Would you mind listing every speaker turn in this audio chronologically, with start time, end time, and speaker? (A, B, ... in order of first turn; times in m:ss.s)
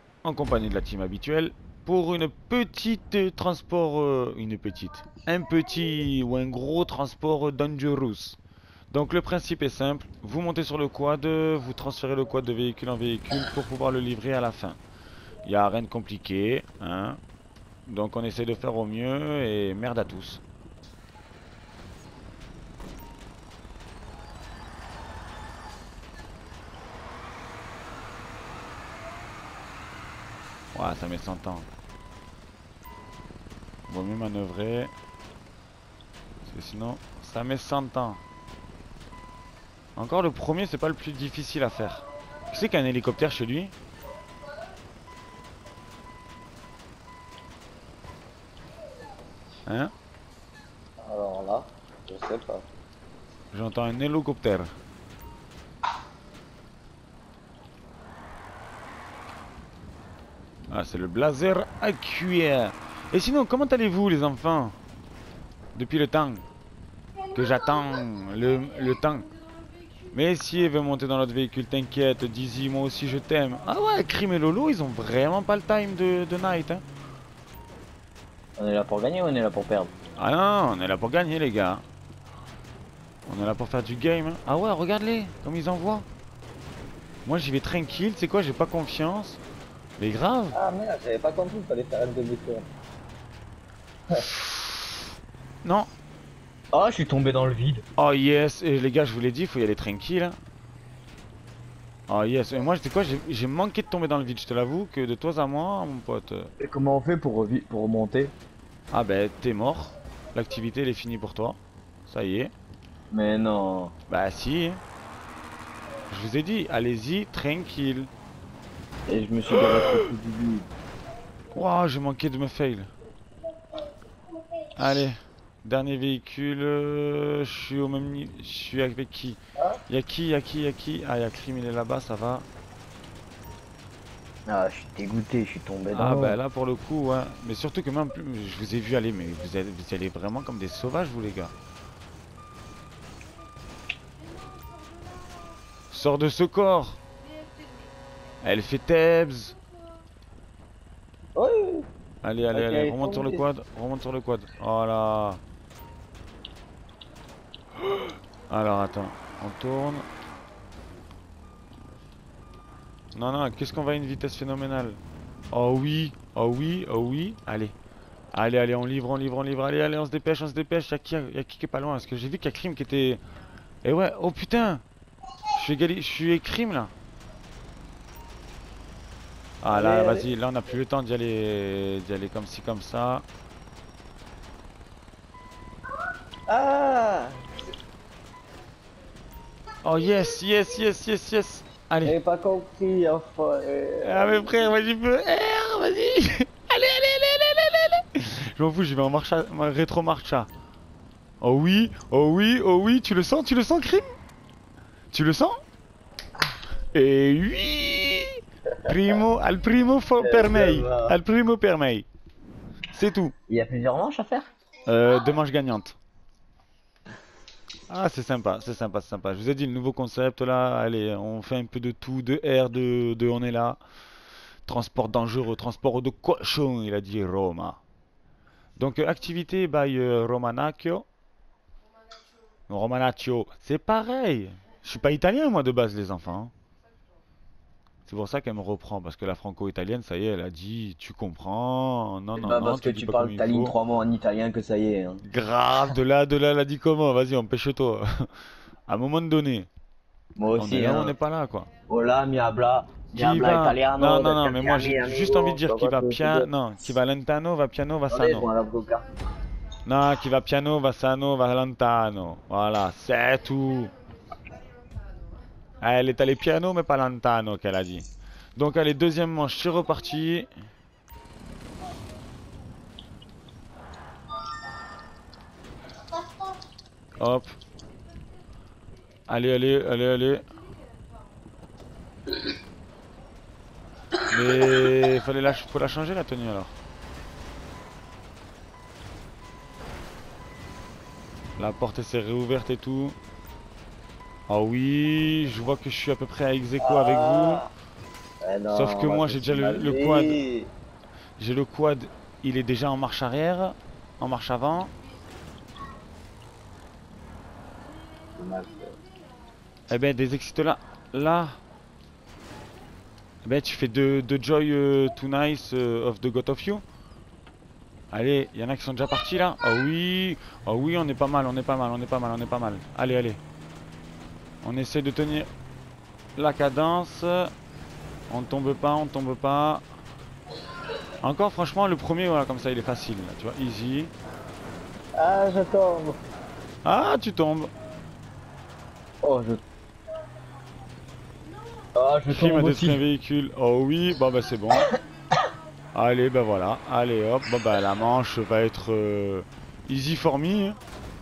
0:00.2-0:08.4 A
0:08.9-0:14.8 A
0:15.4-0:17.2 A
0:17.9-0:20.4 A
0:30.7-0:31.7 A
0:33.9-0:34.9 A
0:36.4-0:38.2 A
0:40.0-0:43.7 A
0:49.7-0:49.9 A
0:51.0-0:52.7 B
0:53.5-0:54.7 A
1:00.7-1:04.8 A
1:05.8-1:06.4 A
1:07.3-1:09.3 A
1:10.1-1:16.8 A
1:18.6-1:19.9 B
1:20.2-1:21.8 A
1:23.3-1:26.1 A
1:27.2-1:29.4 A
1:30.0-1:30.6 A
1:30.5-1:32.7 B
1:34.2-1:34.7 A
1:35.6-1:35.9 A
1:36.7-1:37.8 B
1:38.0-1:40.4 A
1:42.1-1:46.5 A
1:46.6-1:48.3 B
1:48.9-1:52.5 A
1:53.1-1:53.9 B
1:54.1-1:54.8 A
1:56.1-1:58.1 A
1:59.1-2:00.7 B
2:01.5-2:02.9 A
2:04.8-2:12.5 A
2:14.5-2:16.4 B
2:15.9-2:21.5 A
2:25.9-2:27.0 A
2:28.4-2:29.6 A
2:31.4-2:31.9 B
2:32.2-2:35.4 A
2:32.5-2:33.4 B
2:37.8-2:40.1 A
2:43.2-2:45.0 A
2:45.5-2:47.8 A
2:48.3-2:53.2 A
2:53.8-2:54.8 A
2:55.5-2:56.9 A
2:59.6-3:03.2 A
2:59.7-3:00.3 B
3:06.5-3:07.5 B
3:09.8-3:12.2 A
3:12.0-3:14.6 B
3:14.0-3:20.5 A
3:21.4-3:24.1 A
3:25.1-3:25.6 A
3:26.9-3:32.1 A
3:30.2-3:31.2 B
3:32.9-3:33.3 A
3:33.5-3:34.5 B
3:34.8-3:36.0 A
3:37.9-3:43.8 A
3:44.7-3:47.8 A
3:48.8-3:51.1 A
3:52.7-3:56.5 A
3:58.1-4:03.7 A
4:02.4-4:05.2 B
4:05.2-4:08.1 A
4:08.9-4:09.7 A
4:10.4-4:11.1 B
4:10.6-4:11.7 A
4:11.9-4:16.5 B
4:13.1-4:18.5 A
4:18.1-4:19.1 B
4:19.8-4:23.9 A
4:25.8-4:28.0 A
4:28.6-4:30.5 A
4:37.2-4:37.5 A
4:39.3-4:40.4 A
4:44.3-4:46.8 A
4:51.6-4:53.2 A
4:54.5-4:57.6 A
4:56.8-4:57.7 B
4:58.4-5:00.7 B
4:58.7-5:00.4 A
5:01.4-5:04.9 A
5:08.4-5:09.0 B
5:09.9-5:11.6 A
5:13.4-5:16.8 A
5:18.1-5:23.4 A
5:24.6-5:25.5 A
5:26.4-5:27.5 A
5:28.3-5:29.8 A
5:31.2-5:34.1 A
5:35.2-5:36.2 B
5:36.8-5:37.7 A
5:39.2-5:39.6 B
5:41.9-5:43.0 B
5:42.3-5:44.9 A
5:45.9-5:50.8 A